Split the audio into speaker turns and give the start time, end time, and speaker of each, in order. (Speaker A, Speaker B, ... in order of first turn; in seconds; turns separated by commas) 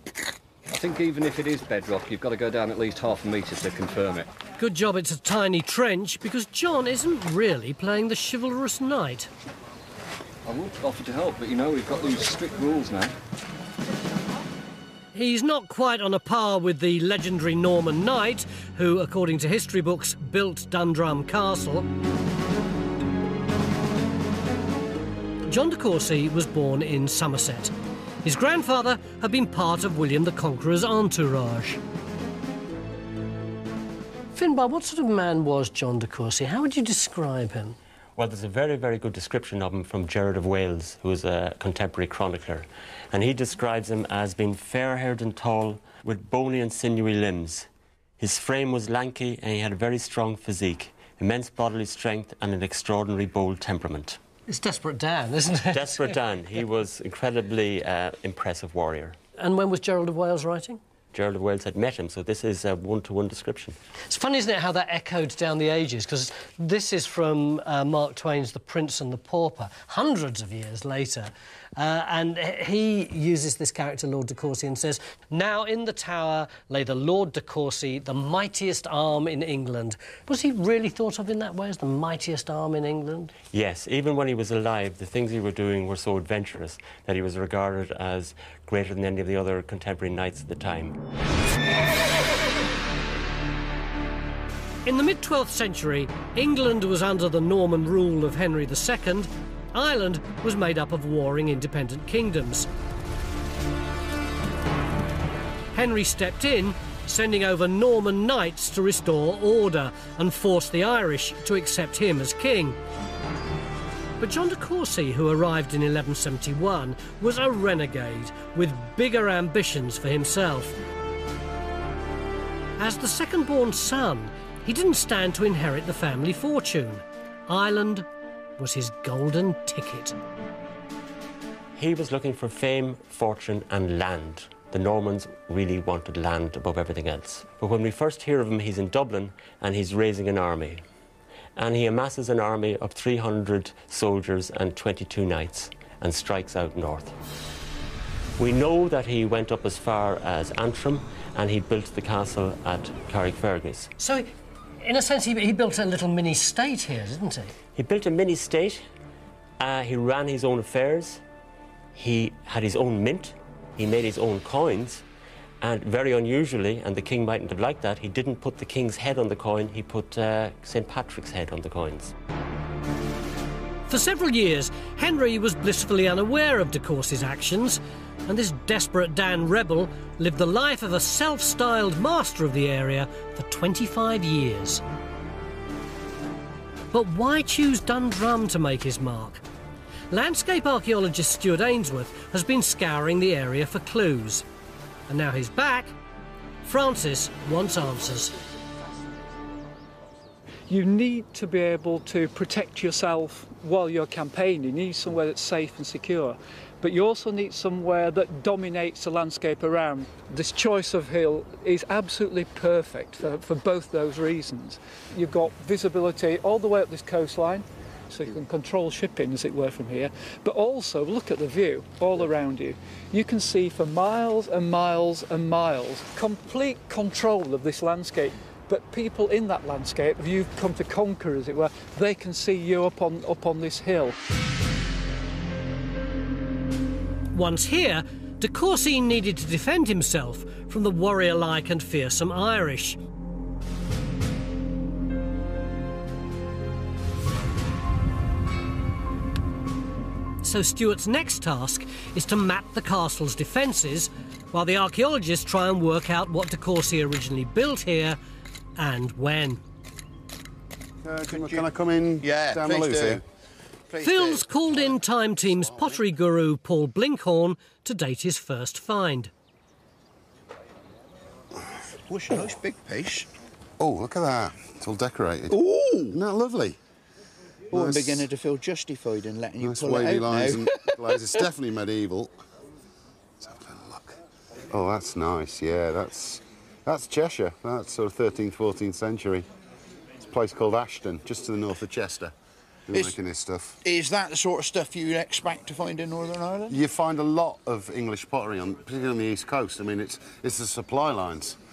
Speaker A: 0.7-4.3, Speaker B: 4.6-9.3, Speaker A: 10.4-13.1, Speaker B: 15.1-21.9, Speaker B: 25.4-27.7, Speaker B: 28.2-31.8, Speaker B: 34.3-37.8, Speaker C: 38.1-54.2, Speaker B: 54.5-56.2, Speaker C: 55.6-59.2, Speaker B: 59.4-60.8, Speaker C: 61.1-63.8, Speaker B: 64.1-83.3, Speaker C: 83.5-91.0, Speaker B: 94.8-102.7, Speaker B: 105.7-112.8, Speaker B: 114.2-120.8, Speaker B: 122.8-128.1, Speaker B: 128.6-130.2, Speaker C: 131.7-140.8, Speaker C: 141.6-147.1, Speaker C: 148.4-153.9, Speaker B: 154.0-154.3, Speaker B: 154.8-157.6, Speaker C: 157.7-158.8, Speaker C: 159.6-161.2, Speaker C: 161.9-165.0, Speaker C: 165.6-172.1, Speaker B: 173.9-184.8, Speaker B: 186.9-189.4, Speaker B: 190.1-194.4, Speaker B: 195.1-195.9, Speaker B: 196.6-198.4, Speaker D: 200.7-234.2, Speaker B: 237.3-243.0, Speaker B: 250.4-258.2, Speaker B: 258.8-259.6, Speaker E: 261.0-263.2, Speaker F: 261.3-261.7, Speaker F: 262.2-263.2, Speaker E: 263.9-266.0, Speaker B: 264.0-269.3, Speaker F: 272.1-273.3, Speaker E: 273.8-276.8, Speaker F: 275.5-276.1, Speaker E: 277.7-278.3, Speaker F: 277.7-281.4, Speaker E: 279.6-282.4, Speaker E: 283.4-284.2, Speaker E: 284.7-289.5, Speaker E: 290.2-292.3, Speaker E: 292.9-293.8, Speaker F: 293.8-296.8, Speaker E: 296.7-301.6